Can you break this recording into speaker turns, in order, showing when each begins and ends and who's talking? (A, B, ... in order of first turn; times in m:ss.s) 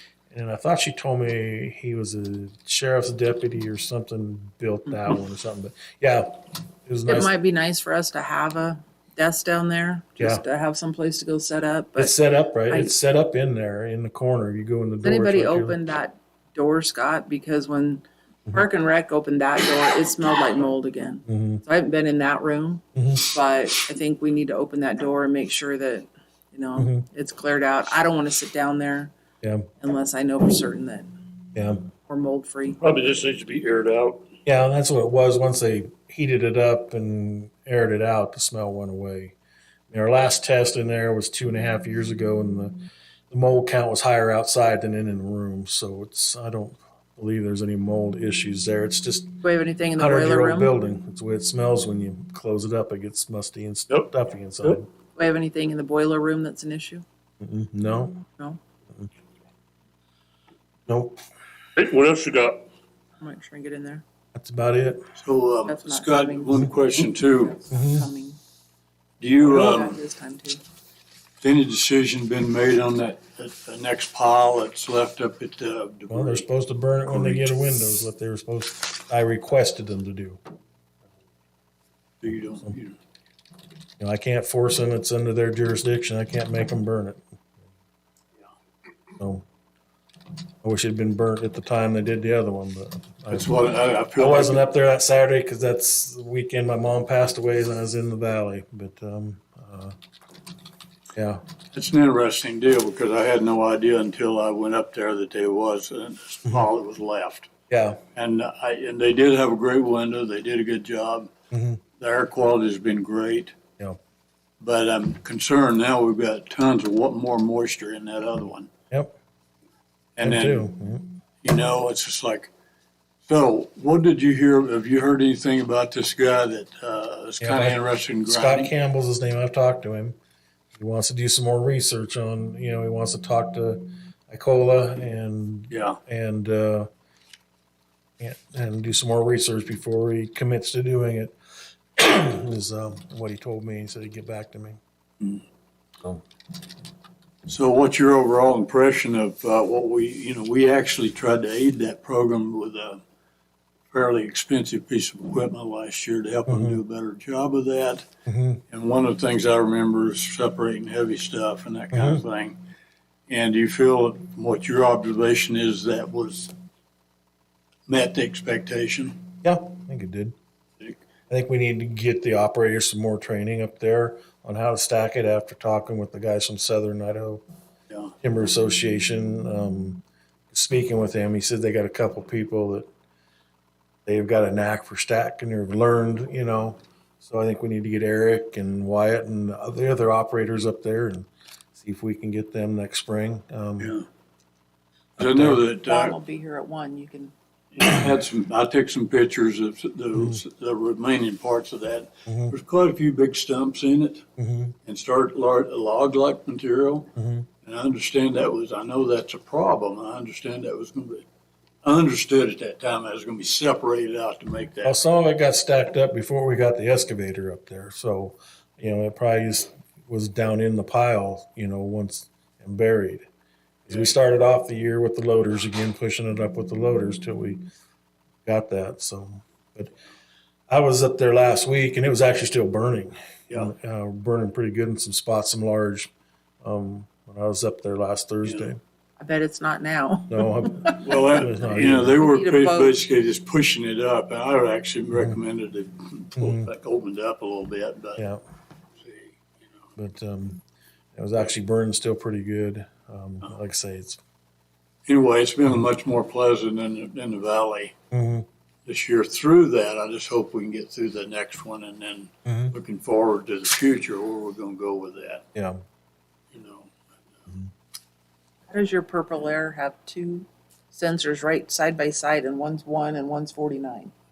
0:00.3-0:07.3 A
0:07.1-0:12.1 B
0:12.0-0:15.8 A
0:12.7-0:12.9 B
0:15.0-0:29.1 B
0:21.3-0:21.6 A
0:23.0-0:23.3 A
0:26.8-0:27.0 A
0:29.4-0:29.7 A
0:29.8-0:31.1 B
0:31.5-0:31.8 A
0:32.1-0:32.8 B
0:32.8-0:34.3 C
0:34.5-0:39.4 A
0:39.9-0:42.8 A
0:43.3-0:49.4 A
0:49.4-0:50.7 B
0:50.0-0:54.9 A
0:55.2-0:57.0 B
0:57.4-0:58.2 A
1:00.9-1:01.2 A
1:01.8-1:02.7 C
1:03.2-1:04.0 B
1:04.4-1:05.0 A
1:05.2-1:07.6 D
1:05.7-1:08.4 B
1:07.7-1:08.1 A
1:09.2-1:10.0 D
1:09.4-1:10.6 B
1:11.4-1:16.5 D
1:16.1-1:20.4 A
1:22.2-1:23.0 D
1:24.0-1:27.2 A
1:29.2-1:29.4 A
1:30.6-1:33.5 A
1:33.3-1:34.6 D
1:34.1-1:40.0 A
1:41.2-1:41.4 A
1:41.7-1:47.5 D
1:47.7-1:48.0 A
1:48.2-1:51.3 D
1:51.5-1:51.8 A
1:52.0-1:53.6 D
1:54.6-1:58.7 D
1:58.9-1:59.2 A
2:00.2-2:00.7 D
2:00.2-2:01.1 A
2:01.4-2:02.5 D
2:03.2-2:08.7 D
2:07.4-2:10.2 A
2:10.7-2:16.9 A
2:15.7-2:16.0 D
2:18.2-2:21.4 A
2:22.0-2:24.8 A
2:27.5-2:33.0 D
2:33.9-2:38.1 D
2:36.5-2:36.8 A
2:38.3-2:38.6 A
2:38.7-2:42.6 D
2:41.9-2:42.2 A
2:43.3-2:46.5 D
2:47.9-2:49.2 D
2:49.4-2:50.4 A
2:51.3-2:57.4 A
2:58.2-3:02.9 A
3:04.1-3:14.0 A
3:13.8-3:14.0 D
3:15.2-3:16.2 D
3:15.2-3:15.6 A
3:15.8-3:17.3 B
3:17.7-3:24.3 D
3:20.1-3:20.4 A
3:22.3-3:22.6 A
3:24.4-3:24.8 A
3:24.9-3:27.1 D
3:27.2-3:27.5 A
3:27.6-3:31.2 D
3:31.8-3:35.0 D
3:34.8-3:43.2 A
3:43.9-3:47.6 A
3:48.4-3:50.0 A
3:50.7-3:56.1 A
3:56.6-3:58.8 A
3:59.2-4:01.1 B
4:00.3-4:02.2 A
4:01.0-4:08.2 D
4:01.9-4:03.0 B
4:06.4-4:06.7 A
4:09.0-4:09.3 D
4:10.0-4:10.6 A
4:11.2-4:14.2 A
4:15.1-4:17.9 D
4:18.1-4:18.5 A
4:18.9-4:25.5 D
4:22.5-4:22.8 A
4:25.6-4:25.8 A
4:26.5-4:26.9 D
4:28.7-4:34.1 B